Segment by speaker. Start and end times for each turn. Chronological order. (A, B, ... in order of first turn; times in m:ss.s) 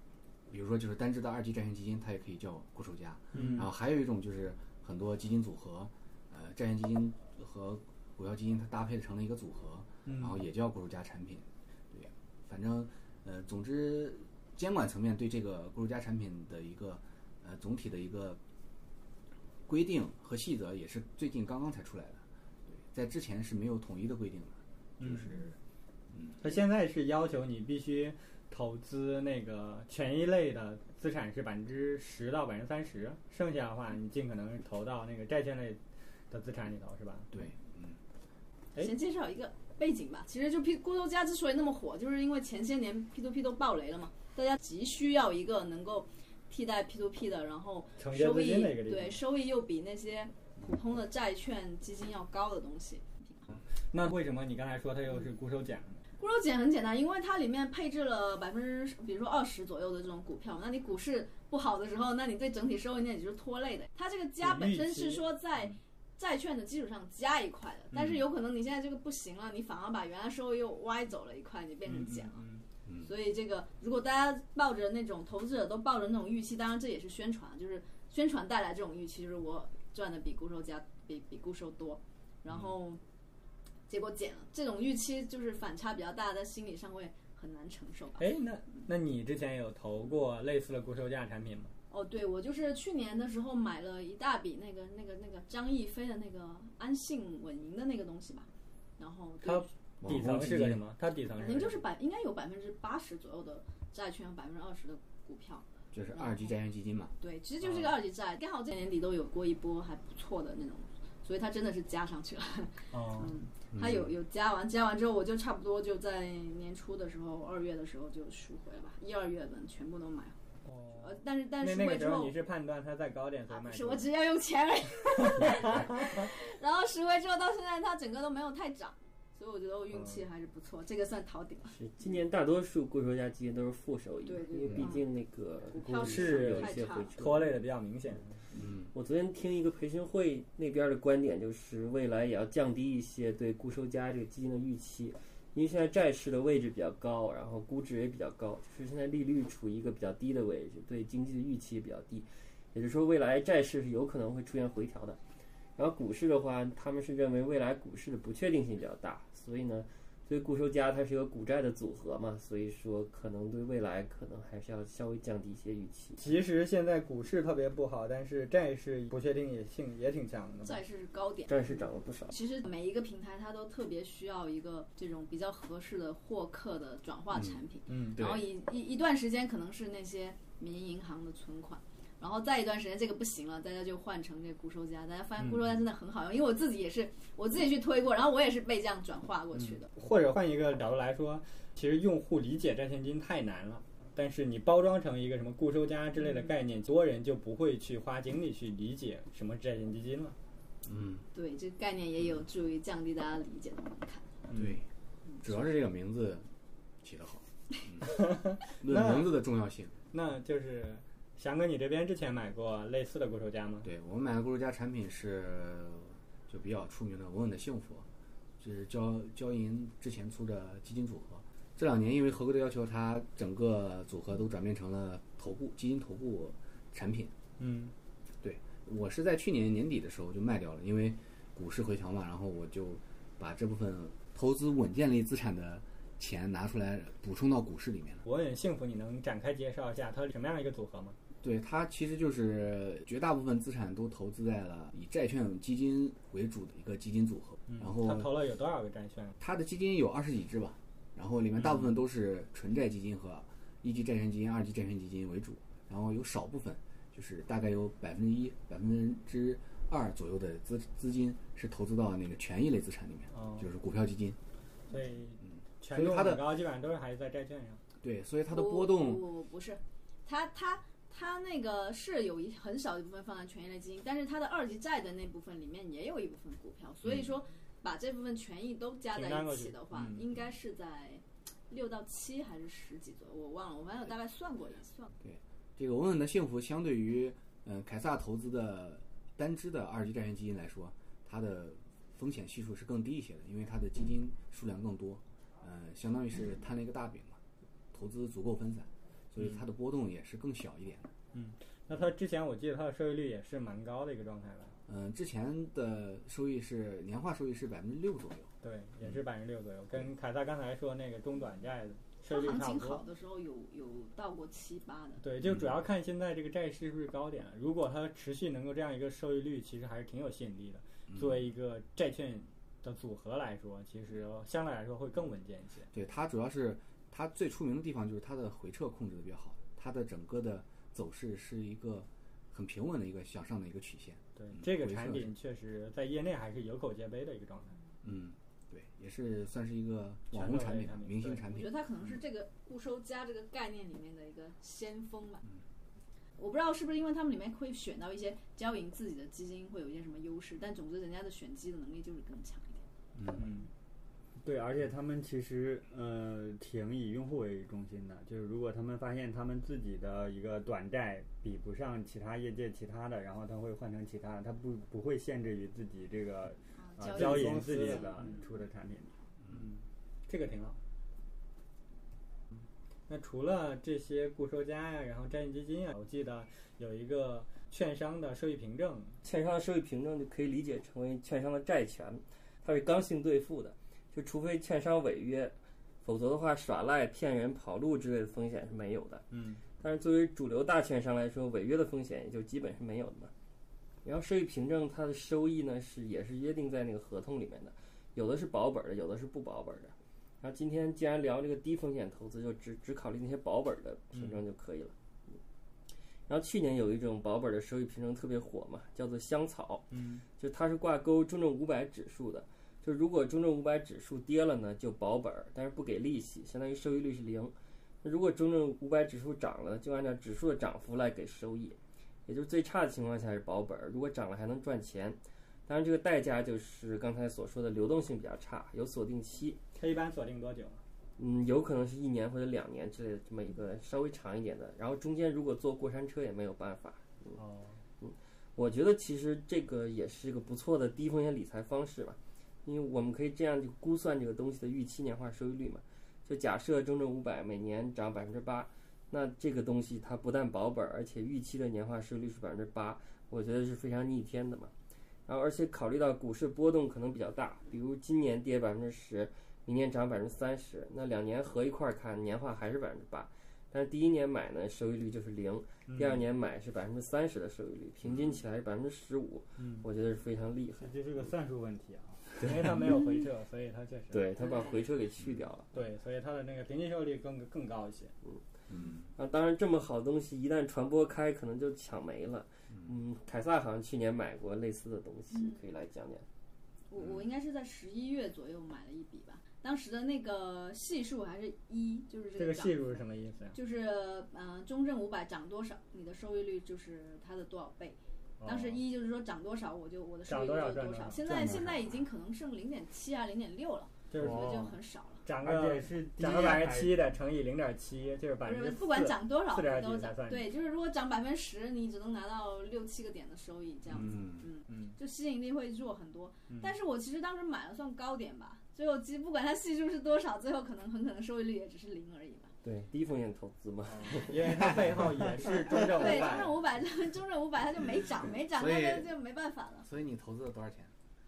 0:00.5-0:18.4 A
0:03.3-0:03.7 B
0:10.1-0:10.4 B
0:19.7-0:25.6 A
0:25.0-0:25.4 B
0:26.1-0:26.4 A
0:26.4-0:37.3 B
0:37.3-0:38.0 A
0:38.8-0:53.5 C
0:48.0-0:49.2 B
0:53.9-0:56.0 B
0:56.2-1:12.4 C
1:04.4-1:05.3 B
1:07.9-1:08.2 B
1:11.9-1:12.6 B
1:13.0-1:23.0 C
1:23.9-1:28.2 C
1:28.2-1:31.7 B
1:31.9-1:39.7 C
1:39.4-1:41.8 B
1:40.0-1:40.8 A
1:41.4-1:46.5 C
1:45.9-1:47.1 A
1:47.2-2:00.4 C
1:47.6-1:47.9 B
1:52.9-1:53.4 B
1:53.7-1:54.1 A
2:00.7-2:04.1 B
2:01.0-2:02.3 C
2:03.5-2:11.8 C
2:05.3-2:05.8 B
2:11.7-2:17.5 D
2:14.3-2:15.1 C
2:15.7-2:17.1 C
2:15.9-2:18.3 B
2:18.5-2:18.9 A
2:18.9-2:35.2 D
2:35.8-2:46.3 D
2:46.2-2:50.8 B
2:50.6-2:51.7 C
2:51.5-2:52.4 D
2:52.3-3:09.9 C
2:57.3-2:57.6 A
2:57.9-2:58.2 B
2:58.1-2:58.5 A
3:09.6-3:20.4 B
3:20.8-3:21.2 A
3:21.3-3:24.3 C
3:24.5-3:24.8 B
3:24.6-3:24.9 A
3:25.4-3:26.5 A
3:27.0-3:29.9 A
3:28.0-3:29.4 B
3:30.1-3:33.9 B
3:33.8-3:38.1 A
3:38.6-3:47.3 A
3:47.6-3:47.9 B
3:48.4-3:58.2 A
3:58.2-4:01.2 B
4:01.4-4:08.3 A
4:07.7-4:09.4 B
4:09.4-4:24.4 A
4:23.3-4:23.7 B
4:24.9-4:27.8 B
4:25.4-4:26.5 A
4:28.0-4:29.2 A
4:28.5-4:45.1 C
4:39.1-4:40.2 B
4:45.2-4:57.4 A
4:57.9-5:01.1 A
5:01.3-5:04.7 B
5:04.9-5:08.5 A
5:08.6-5:13.0 B
5:12.2-5:15.2 C
5:15.2-5:25.9 B
5:25.9-5:35.3 A
5:34.4-5:37.8 B
5:38.0-5:41.7 A
5:40.3-5:41.4 B
5:41.5-5:45.4 C
5:46.4-5:52.8 C
5:53.2-5:53.4 A
5:53.3-5:53.7 B
5:54.4-6:09.1 E
6:06.8-6:08.4 C
6:07.1-6:08.3 B
6:09.5-6:10.8 B
6:13.1-6:19.2 B
6:19.2-6:29.2 D
6:29.3-6:29.6 B
6:29.8-6:33.3 D
6:34.0-6:44.9 D
6:46.3-7:09.6 D
6:49.9-6:50.2 B
7:09.8-7:10.8 B
7:11.2-7:17.4 D
7:17.4-7:17.6 B
7:18.0-7:34.7 D
7:35.3-7:50.9 D
7:45.9-7:46.2 B
7:49.6-7:49.9 B
7:50.8-7:52.3 E
7:52.4-7:54.2 B
7:54.1-7:55.7 D
7:55.7-7:58.1 B
7:58.7-7:59.1 A
7:59.2-8:06.2 D
8:05.3-8:05.6 C
8:06.9-8:13.0 C
8:12.4-8:13.6 B
8:13.5-8:25.2 C
8:18.4-8:18.8 B
8:20.3-8:21.2 B
8:21.2-8:21.7 E
8:24.1-8:24.7 B
8:24.2-8:24.8 E
8:25.2-8:30.5 B
8:25.4-8:27.0 E
8:28.4-8:42.5 C
8:34.0-8:34.5 A
8:34.7-8:35.0 B
8:42.6-8:44.7 D
8:43.9-8:46.6 B
8:45.9-8:49.9 C
8:48.5-8:49.2 A
8:49.8-8:50.9 A